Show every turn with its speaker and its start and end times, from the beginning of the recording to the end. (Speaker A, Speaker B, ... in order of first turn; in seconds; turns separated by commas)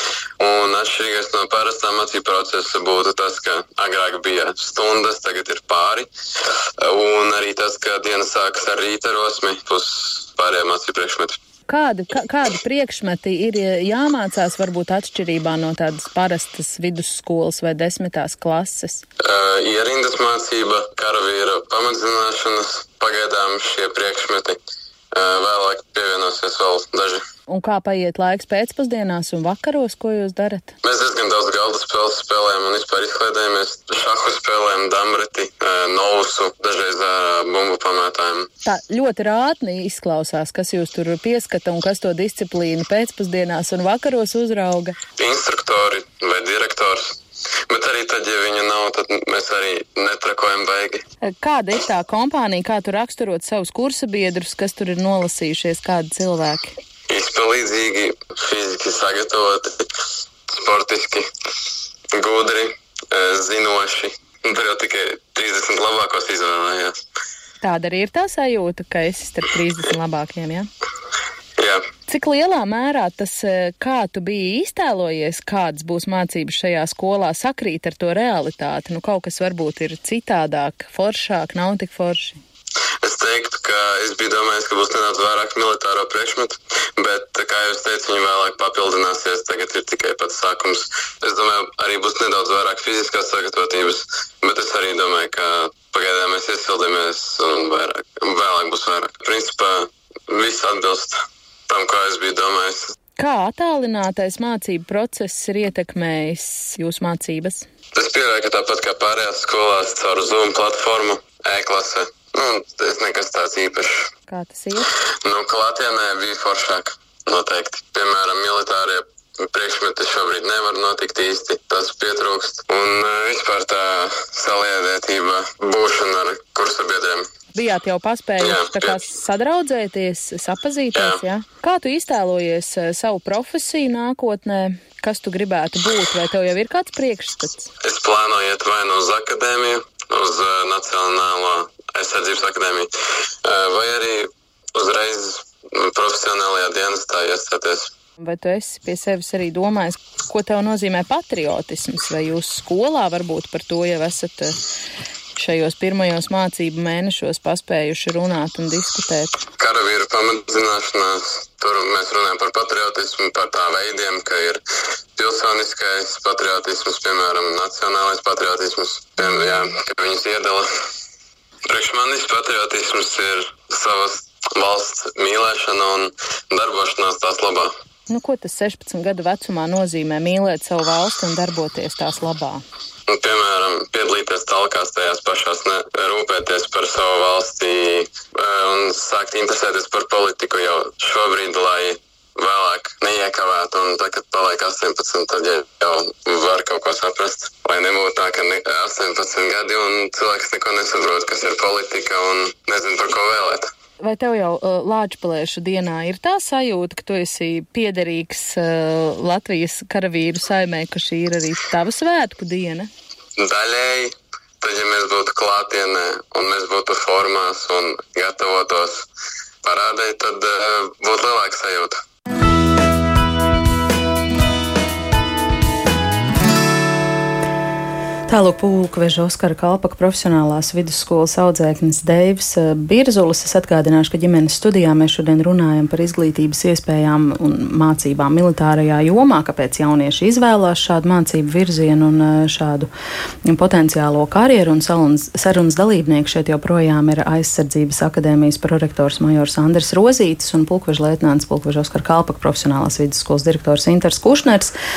Speaker A: 0.4-11.4, Speaker B: 11.7-19.0, Speaker A: 19.2-24.6, Speaker A: 25.1-27.2, Speaker B: 27.5-30.7, Speaker A: 30.8-38.5, Speaker B: 38.6-45.0, Speaker A: 45.2-47.2, Speaker A: 47.7-51.0, Speaker B: 51.2-56.7, Speaker A: 57.1-59.9, Speaker A: 60.5-61.2, Speaker A: 62.1-66.9, Speaker B: 67.6-70.7, Speaker A: 71.6-71.8, Speaker B: 72.1-82.4, Speaker A: 83.0-101.2, Speaker A: 101.7-103.0, Speaker B: 103.2-107.6, Speaker A: 107.9-114.1, Speaker B: 114.3-114.9, Speaker A: 115.2-127.3, Speaker B: 127.5-137.7, Speaker A: 128.4-129.0, Speaker A: 130.9-131.2, Speaker A: 137.8-142.9, Speaker A: 143.4-147.9, Speaker B: 148.2-154.6, Speaker B: 155.3-159.4, Speaker A: 159.6-164.6, Speaker A: 165.2-170.7, Speaker A: 171.7-177.7, Speaker B: 178.1-182.6, Speaker A: 183.1-203.7, Speaker B: 204.0-212.9, Speaker A: 213.4-219.1, Speaker A: 219.6-222.0, Speaker B: 228.3-242.9, Speaker B: 243.4-254.7